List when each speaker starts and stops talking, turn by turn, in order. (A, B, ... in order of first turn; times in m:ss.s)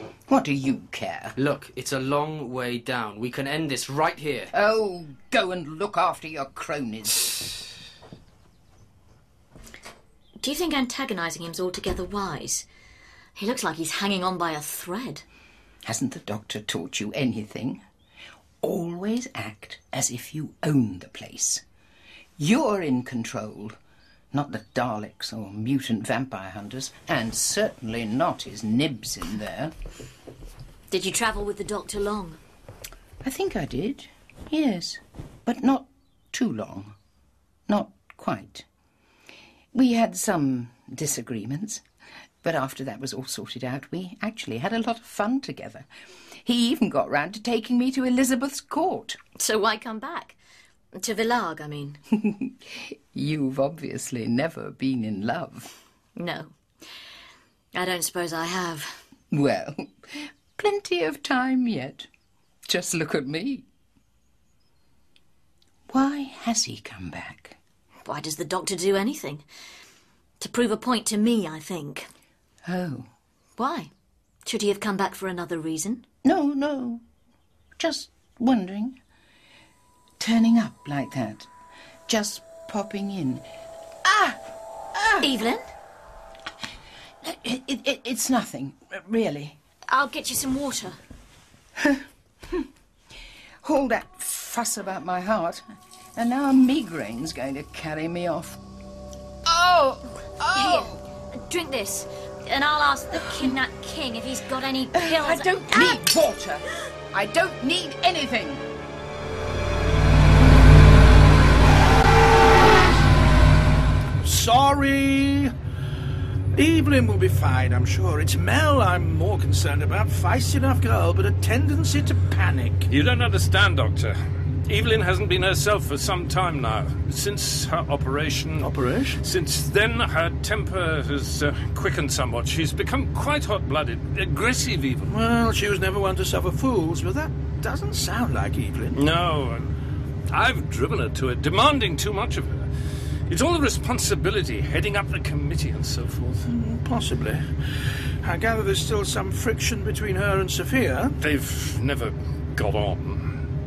0:00.3-0:01.3 A
0:01.4-0:04.5 B
0:04.5-0:07.6 A
0:10.4-0:12.6 C
0:13.4-0:15.2 C
0:15.8-0:17.8 A
0:18.6-0:21.6 A
0:22.4-0:23.8 A
0:24.3-0:29.7 A
0:30.9-0:32.4 C
0:33.2-0:36.9 A
0:37.7-0:38.6 A
0:39.7-0:41.8 A
0:42.4-0:45.8 A
0:46.4-0:49.2 A
0:49.4-0:50.4 C
0:50.9-0:52.0 C
0:52.1-0:55.7 A
0:56.2-0:56.5 C
0:57.7-0:59.0 C
0:59.3-1:02.1 A
1:02.7-1:03.6 A
1:05.9-1:07.6 A
1:08.0-1:09.4 C
1:10.4-1:12.1 C
1:12.6-1:13.1 A
1:13.6-1:13.9 C
1:14.4-1:16.0 C
1:16.2-1:17.0 A
1:17.8-1:19.0 A
1:20.2-1:21.5 A
1:22.1-1:23.4 A
1:24.0-1:24.4 A
1:24.9-1:25.3 A
1:25.2-1:25.6 C
1:27.2-1:29.6 A
1:29.9-1:31.0 C
1:31.8-1:32.7 A
1:33.6-1:35.6 A
1:36.2-1:38.6 A
1:39.4-1:41.0 A
1:40.5-1:46.2 C
1:43.2-1:43.5 A
1:44.9-1:48.6 A
1:54.2-1:55.5 D
1:56.5-2:02.9 D
2:02.9-2:15.1 E
2:08.6-2:09.2 D
2:15.1-2:19.0 D
2:18.9-2:19.7 E
2:20.3-2:22.7 E
2:23.3-2:26.5 E
2:26.5-2:27.5 D
2:28.2-2:31.2 D
2:31.2-2:33.3 E